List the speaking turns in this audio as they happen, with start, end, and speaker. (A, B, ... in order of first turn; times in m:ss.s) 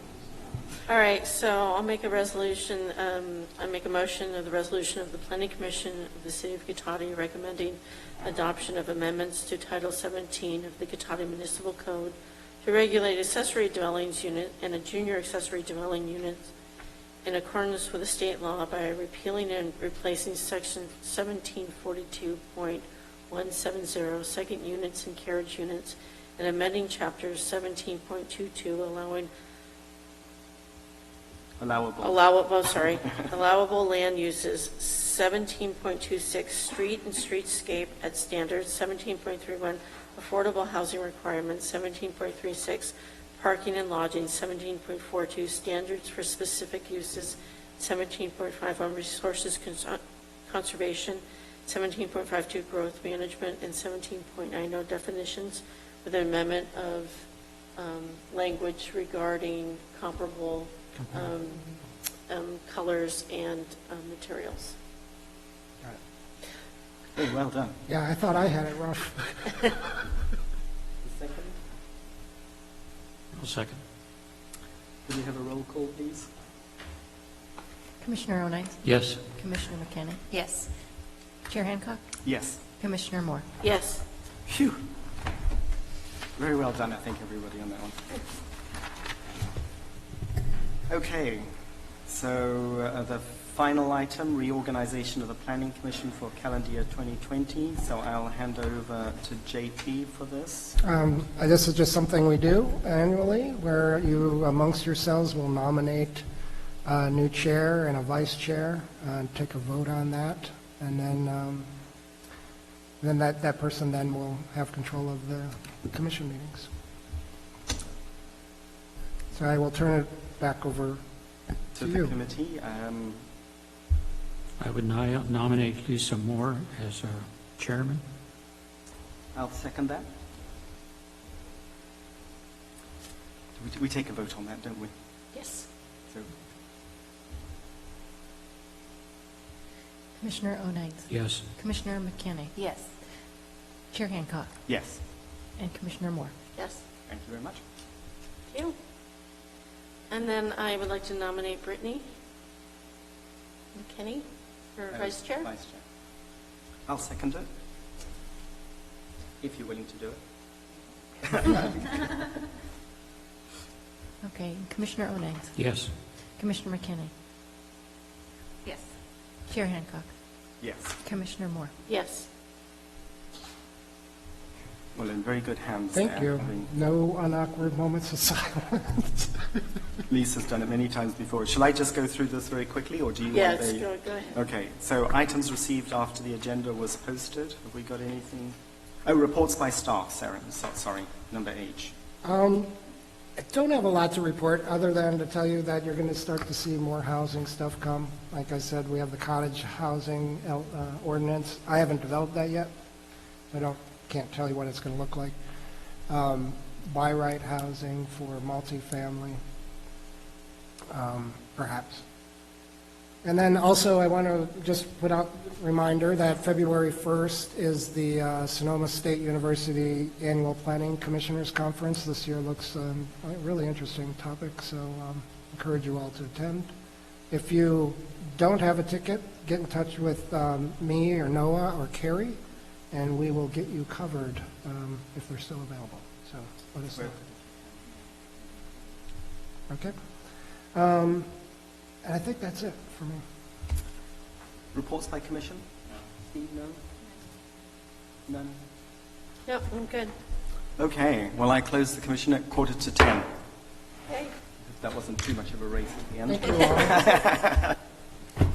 0:00.9-0:16.5 A
0:17.2-0:29.3 A
0:31.6-0:32.2 B
0:32.0-0:57.2 A
0:57.8-1:01.7 A
1:01.0-1:01.2 C
1:02.3-1:04.8 A
1:07.2-1:07.8 B
1:07.9-1:10.0 D
1:11.0-1:11.6 B
1:13.3-1:13.8 C
1:15.0-1:16.3 B
1:18.0-1:20.7 E
1:18.8-1:19.3 C
1:21.5-1:22.2 E
1:22.2-1:22.6 B
1:22.8-1:23.5 E
1:23.6-1:24.0 A
1:24.5-1:24.8 B
1:26.4-1:28.0 B
1:30.9-1:31.5 B
1:32.1-1:40.8 B
1:40.8-1:46.2 D
1:46.8-1:51.7 D
1:53.0-1:56.7 D
1:59.3-2:01.0 D
2:01.7-2:02.2 D
2:01.8-2:03.2 B
2:04.6-2:08.0 C
2:09.3-2:10.1 B
2:13.6-2:14.9 B
2:15.3-2:15.7 A
2:20.2-2:22.9 E
2:21.1-2:21.5 C
2:23.9-2:24.5 E
2:24.7-2:25.0 B
2:25.6-2:26.3 E
2:26.6-2:26.8 A
2:27.1-2:27.6 B
2:28.5-2:28.8 A
2:30.1-2:32.0 A
2:33.8-2:35.5 A
2:34.9-2:35.8 B
2:36.9-2:37.5 B
2:39.4-2:40.2 B
2:41.2-2:42.2 B
2:44.2-2:45.6 E
2:45.6-2:45.9 C
2:46.4-2:47.1 E
2:49.5-2:50.1 E
2:50.6-2:51.0 B
2:51.0-2:51.7 E
2:51.9-2:52.3 A
2:54.9-2:56.7 B
2:55.9-2:59.5 D
3:00.1-3:11.9 B
3:03.3-3:04.4 A
3:12.2-3:12.7 D
3:13.4-3:22.7 D
3:23.5-3:25.4 D
3:26.1-3:29.4 D
3:30.9-3:32.0 D
3:33.2-3:46.7 D
3:47.3-3:52.4 D
3:52.9-3:57.2 D
3:57.0-3:57.8 B
3:59.7-3:59.9 D
4:00.7-4:01.3 D
4:02.0-4:03.2 D
4:04.7-4:06.8 B
4:08.3-4:08.6 B
4:09.5-4:10.1 A
4:10.8-4:13.3 B
4:14.1-4:14.3 A
4:14.6-4:17.7 B
4:16.3-4:17.2 D